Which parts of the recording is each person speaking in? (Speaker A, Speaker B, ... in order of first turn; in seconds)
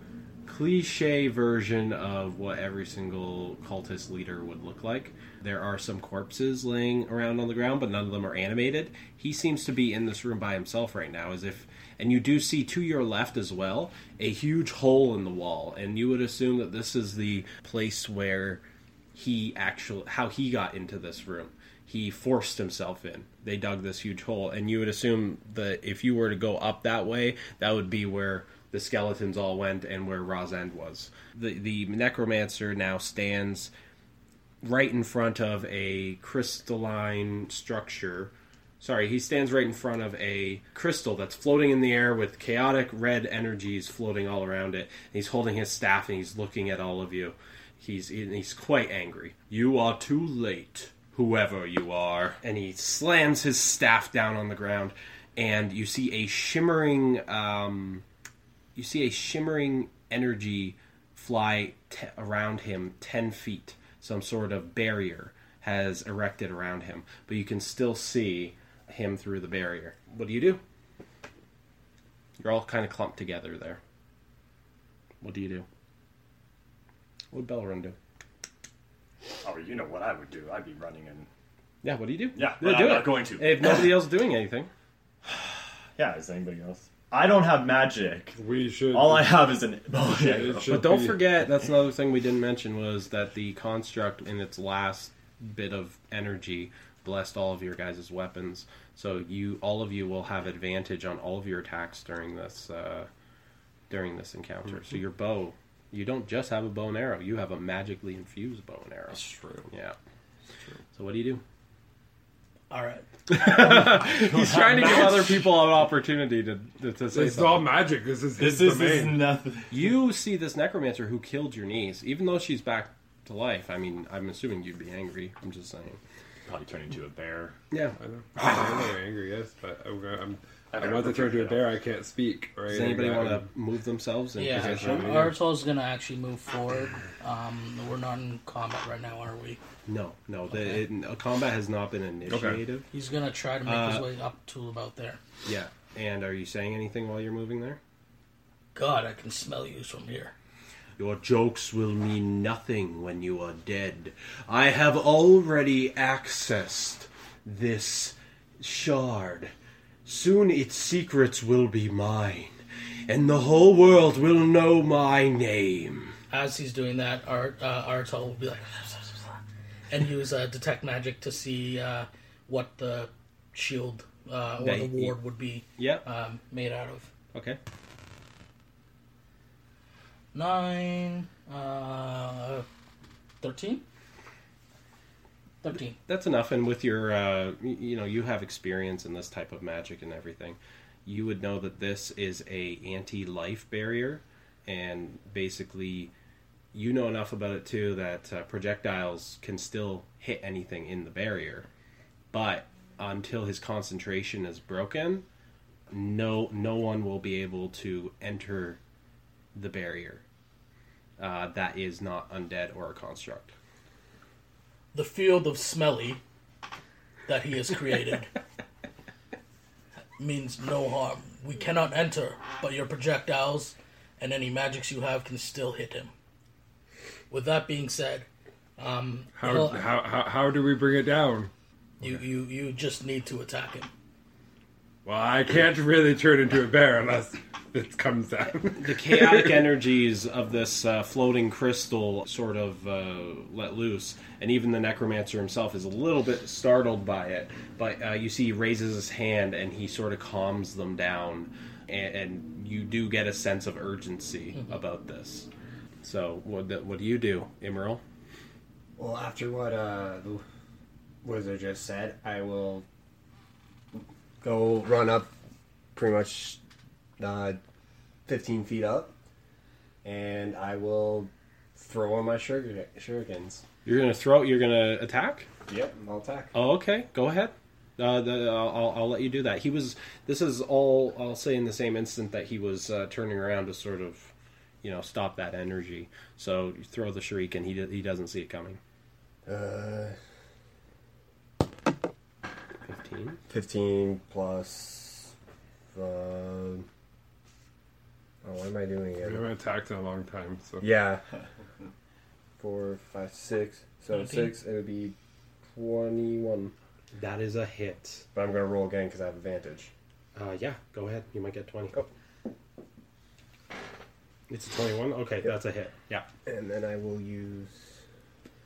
Speaker A: 0.5-18.6, 19.1-33.7, 34.6-58.0, 58.8-70.6, 72.4-73.8, 75.2-75.7, 77.3-78.0, 81.8-84.7, 90.7-103.1, 103.9-110.0, 110.9-111.4, 113.3-117.8, 119.7-126.0, 127.7-128.8, 132.7-135.3, 139.9-142.9, 143.7-144.1, 145.4-147.8, 151.0-159.5, 160.1-166.1, 174.6-175.2, 175.8-176.1, 177.3-177.6, 186.1-196.1, 196.7-201.7, 202.3-205.2, 205.9-208.8, 209.5-210.2, 211.2-213.6, 238.7-255.5, 256.0-258.0, 273.8-275.5, 276.5-288.8, 292.8-293.4, 307.1-308.3, 310.4-312.0, 314.5-316.3
Speaker B: 79.4-81.3, 82.4-84.0, 85.2-88.4, 88.9-90.7, 113.4-115.6, 118.4-119.8, 126.5-127.6, 130.7-131.7
Speaker C: 88.4-89.5, 90.0-91.2, 109.1-109.7, 117.1-119.3, 128.0-133.5, 134.5-135.3, 142.3-142.6, 229.3-231.5, 235.1-239.7, 299.2-300.9
Speaker D: 112.7-113.0, 134.4-139.6, 140.5-140.8, 142.9-145.2, 148.8-150.3, 166.3-169.4, 169.9-177.1, 180.3-182.7, 183.4-183.8, 185.6-186.0, 214.9-216.2, 217.3-218.3, 220.2-226.1, 227.3-228.3, 228.8-229.8, 232.0-233.9, 304.1-304.6
Speaker E: 259.0-260.4, 261.2-262.9, 263.9-265.3, 265.9-266.6, 267.2-267.6, 268.3-269.1, 270.0-273.6, 275.7-276.5, 289.5-290.2, 293.5-295.3, 295.9-296.9, 298.4-299.5, 300.8-301.2, 302.6-305.1, 305.7-306.7, 308.3-309.9, 316.4-318.0